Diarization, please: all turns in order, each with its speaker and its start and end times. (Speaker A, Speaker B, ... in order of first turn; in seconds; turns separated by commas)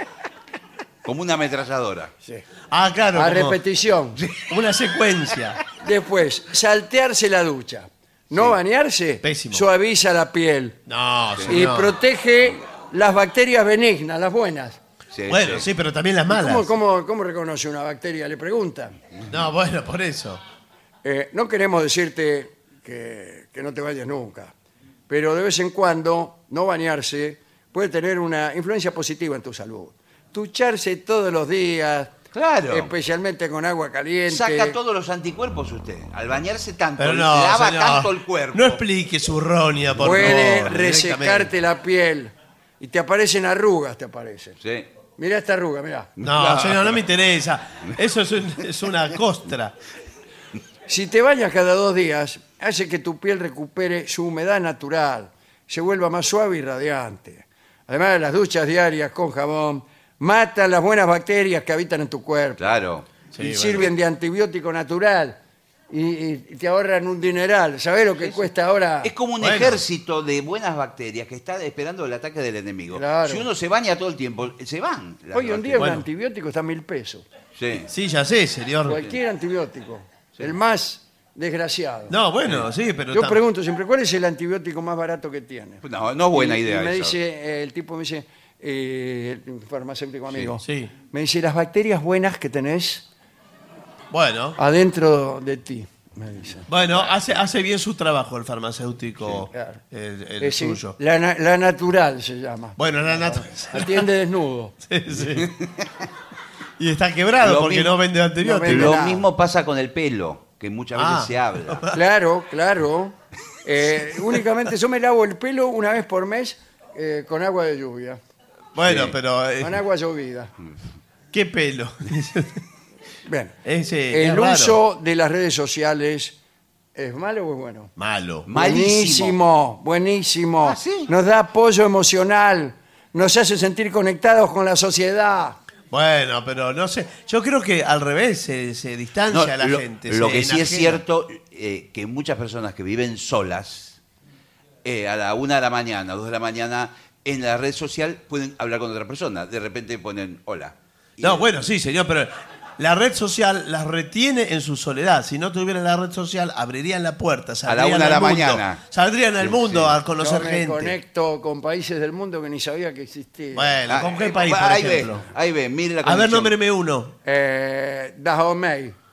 Speaker A: 1.0-2.1, Speaker B: 2.7-3.6, Speaker C: 3.1-4.2, Speaker A: 4.2-4.5, Speaker B: 4.5-5.6, Speaker C: 5.8-10.8, Speaker B: 9.2-9.7, Speaker B: 10.9-12.0, Speaker C: 11.5-14.8, Speaker A: 15.1-15.7, Speaker B: 15.3-16.7, Speaker C: 16.3-19.0, Speaker B: 19.3-20.4, Speaker C: 21.0-24.5, Speaker C: 25.1-32.2, Speaker A: 32.3-32.9, Speaker C: 32.7-34.8, Speaker A: 34.3-38.8, Speaker B: 37.0-41.5, Speaker C: 40.0-44.6, Speaker A: 44.6-44.9, Speaker C: 45.2-46.1, Speaker A: 46.2-46.9, Speaker B: 46.2-49.8, Speaker C: 50.9-62.7, Speaker A: 62.6-63.1, Speaker B: 63.3-63.9, Speaker C: 63.4-65.4, Speaker C: 65.9-69.1, Speaker A: 68.2-68.5, Speaker A: 69.0-75.9, Speaker B: 69.4-69.8, Speaker C: 72.9-73.5, Speaker C: 75.3-77.3, Speaker B: 75.8-76.1, Speaker A: 77.5-77.9, Speaker B: 77.9-79.0, Speaker C: 78.9-82.2, Speaker B: 82.1-83.4, Speaker C: 83.1-93.0, Speaker A: 85.8-87.2, Speaker B: 90.6-90.9, Speaker B: 94.1-94.6, Speaker C: 94.6-96.7, Speaker B: 96.7-101.0, Speaker C: 99.5-99.8, Speaker C: 100.4-104.8, Speaker B: 102.8-104.1, Speaker B: 104.9-105.6, Speaker A: 105.4-106.1, Speaker B: 106.8-109.0, Speaker A: 107.4-108.0, Speaker C: 108.4-109.3, Speaker A: 108.7-111.9, Speaker B: 111.0-112.0, Speaker C: 111.9-118.2, Speaker B: 118.8-119.8, Speaker A: 118.8-119.2, Speaker C: 119.6-120.5, Speaker B: 121.3-122.6, Speaker C: 123.2-123.5, Speaker B: 123.7-124.8, Speaker C: 124.1-126.4, Speaker C: 127.0-127.9, Speaker B: 128.0-128.5, Speaker A: 128.4-129.4, Speaker C: 128.5-135.6, Speaker A: 130.6-131.1, Speaker B: 135.9-141.0, Speaker A: 139.3-144.0, Speaker A: 144.8-151.4, Speaker B: 151.2-160.9, Speaker A: 157.7-158.8, Speaker A: 159.4-160.0, Speaker C: 160.2-163.8, Speaker B: 163.6-165.2, Speaker A: 163.9-166.6, Speaker B: 166.0-167.1, Speaker C: 167.2-169.0